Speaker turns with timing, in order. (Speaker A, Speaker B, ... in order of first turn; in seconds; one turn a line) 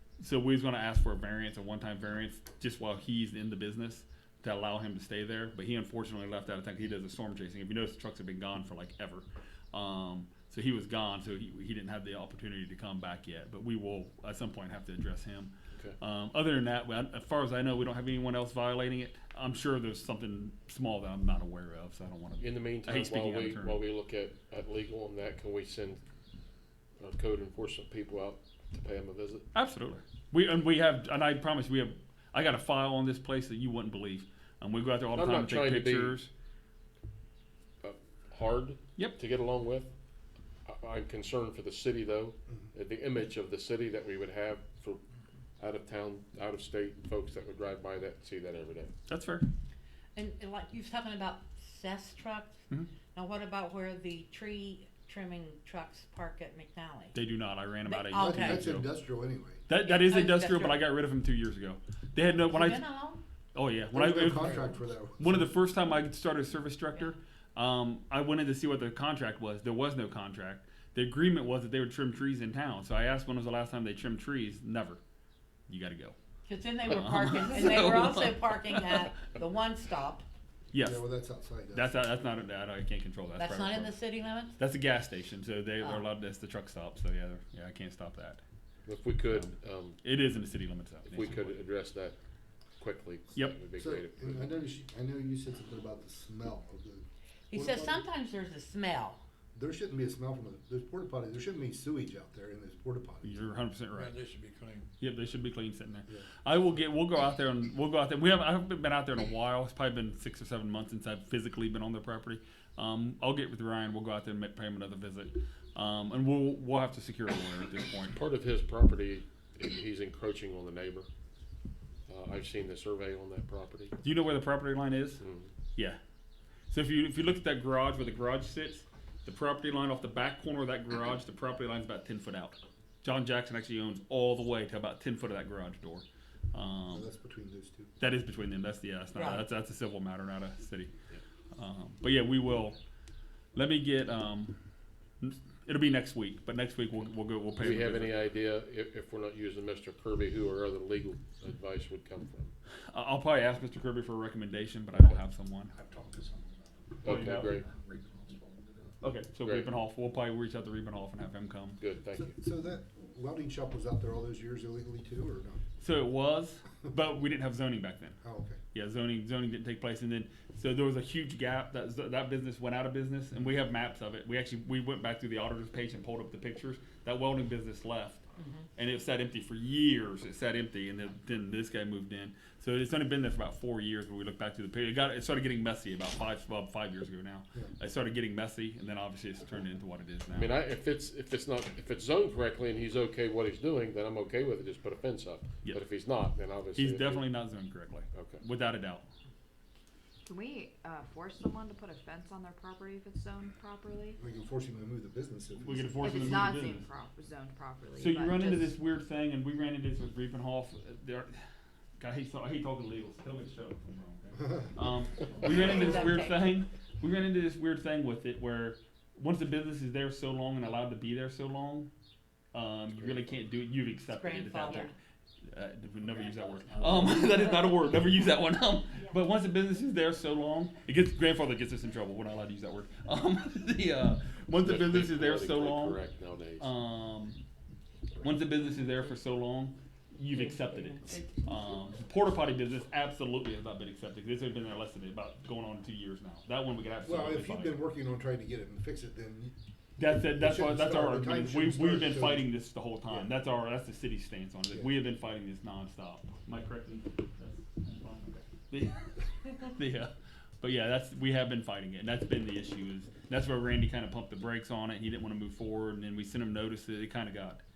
Speaker A: 0.2-23.8
Speaker B: 22.4-26.0
Speaker B: 27.0-29.5
Speaker A: 29.5-36.3
Speaker B: 35.1-36.2
Speaker B: 37.8-39.9
Speaker B: 40.6-45.0
Speaker B: 45.6-48.9
Speaker A: 49.1-49.5
Speaker C: 50.1-52.6
Speaker C: 53.1-57.1
Speaker A: 57.1-58.9
Speaker C: 57.8-58.6
Speaker D: 58.1-59.6
Speaker A: 59.7-62.8
Speaker C: 59.8-60.8
Speaker C: 62.3-63.2
Speaker A: 63.5-75.0
Speaker D: 63.9-65.5
Speaker A: 75.7-76.2
Speaker C: 76.5-80.2
Speaker A: 76.8-78.9
Speaker A: 80.7-81.0
Speaker D: 80.8-81.9
Speaker A: 81.7-83.9
Speaker C: 83.3-84.5
Speaker A: 84.6-88.4
Speaker B: 88.8-90.0
Speaker A: 90.0-91.6
Speaker B: 91.0-92.1
Speaker B: 92.8-94.5
Speaker D: 93.8-98.0
Speaker C: 97.5-99.2
Speaker D: 99.5-103.5
Speaker A: 103.2-104.1
Speaker E: 103.9-104.9
Speaker A: 105.0-118.2
Speaker B: 118.1-121.1
Speaker B: 122.1-123.9
Speaker A: 124.0-125.2
Speaker B: 125.2-125.5
Speaker A: 126.7-137.1
Speaker D: 136.9-137.9
Speaker A: 138.0-140.9
Speaker C: 139.2-139.4
Speaker A: 141.5-142.8
Speaker A: 143.5-144.6
Speaker A: 145.2-148.2
Speaker B: 147.6-152.5
Speaker A: 152.9-155.7
Speaker E: 155.7-158.8
Speaker B: 157.0-157.7
Speaker A: 157.0-157.6
Speaker A: 159.0-161.8
Speaker B: 159.4-159.7
Speaker B: 161.8-162.3
Speaker D: 162.1-165.6
Speaker A: 165.8-168.2
Speaker D: 168.2-168.6
Speaker A: 168.7-178.2
Speaker C: 178.4-178.6
Speaker A: 178.8-190.6
Speaker B: 190.3-197.2
Speaker A: 196.8-199.1
Speaker B: 198.1-198.4
Speaker F: 200.2-204.2
Speaker D: 204.2-206.6
Speaker A: 205.6-206.9
Speaker F: 206.0-208.7
Speaker A: 208.0-211.4
Speaker A: 212.0-221.9
Speaker D: 214.3-214.7
Speaker C: 215.7-216.4
Speaker A: 222.5-224.9
Speaker C: 224.1-224.9
Speaker A: 225.4-236.0
Speaker B: 234.6-236.7
Speaker A: 236.6-237.4
Speaker A: 238.2-247.8
Speaker D: 247.0-249.5
Speaker A: 250.0-267.6
Speaker D: 250.3-252.5